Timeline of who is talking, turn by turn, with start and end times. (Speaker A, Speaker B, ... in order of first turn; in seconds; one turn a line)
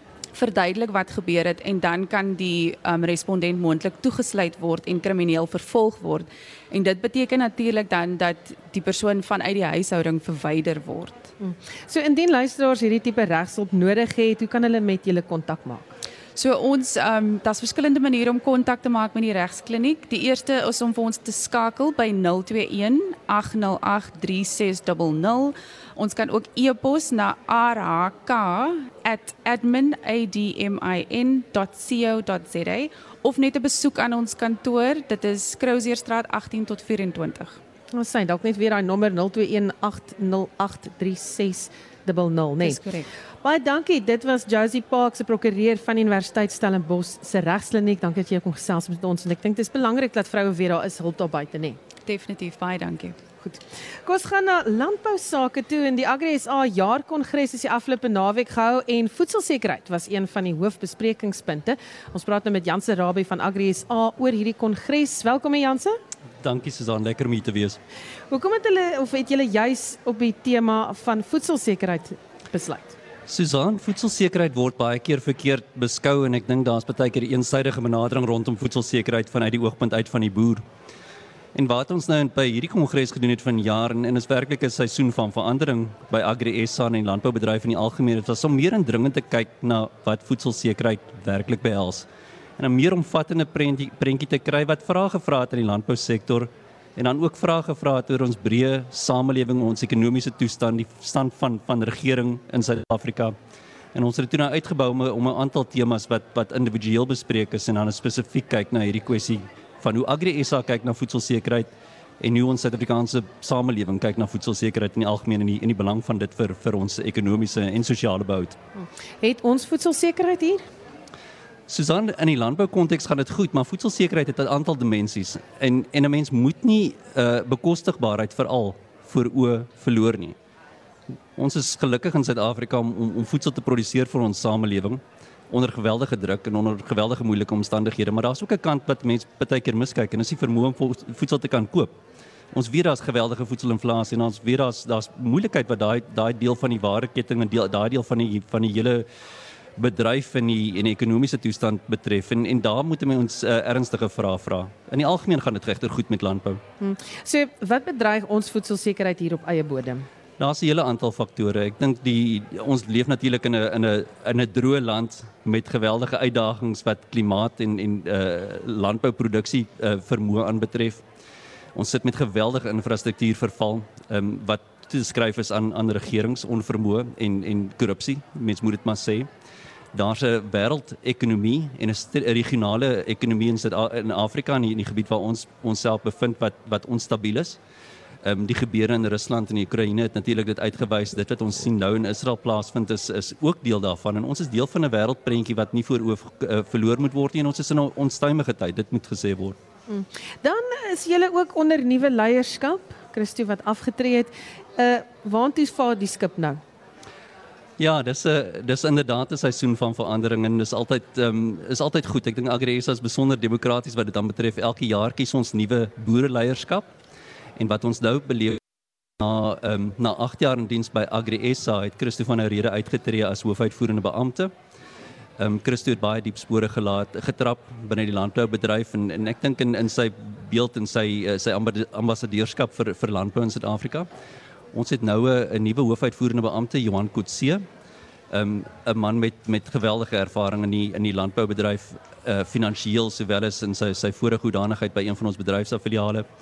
Speaker A: 0.3-11.3
Speaker B: 11.4-15.9
Speaker A: 16.4-37.6
Speaker B: 37.9-42.8
Speaker A: 42.6-43.1
Speaker B: 43.4-51.8
Speaker A: 52.1-53.1
Speaker B: 53.5-66.0
Speaker C: 66.4-67.8
Speaker B: 68.3-73.0
Speaker C: 73.3-80.6
Speaker C: 81.5-92.1
Speaker C: 92.6-103.3
Speaker C: 103.9-118.6
Speaker B: 118.8-120.6
Speaker C: 121.7-130.4
Speaker C: 131.4-141.9
Speaker C: 142.5-149.1
Speaker C: 149.8-156.6
Speaker B: 156.8-160.1
Speaker C: 160.4-171.0
Speaker C: 171.8-179.3
Speaker C: 179.9-187.6
Speaker C: 188.2-199.6
Speaker B: 199.9-206.6
Speaker C: 207.8-216.9
Speaker C: 217.6-218.6
Speaker C: 219.2-224.5
Speaker C: 225.4-234.1
Speaker C: 234.7-237.7
Speaker C: 238.3-246.2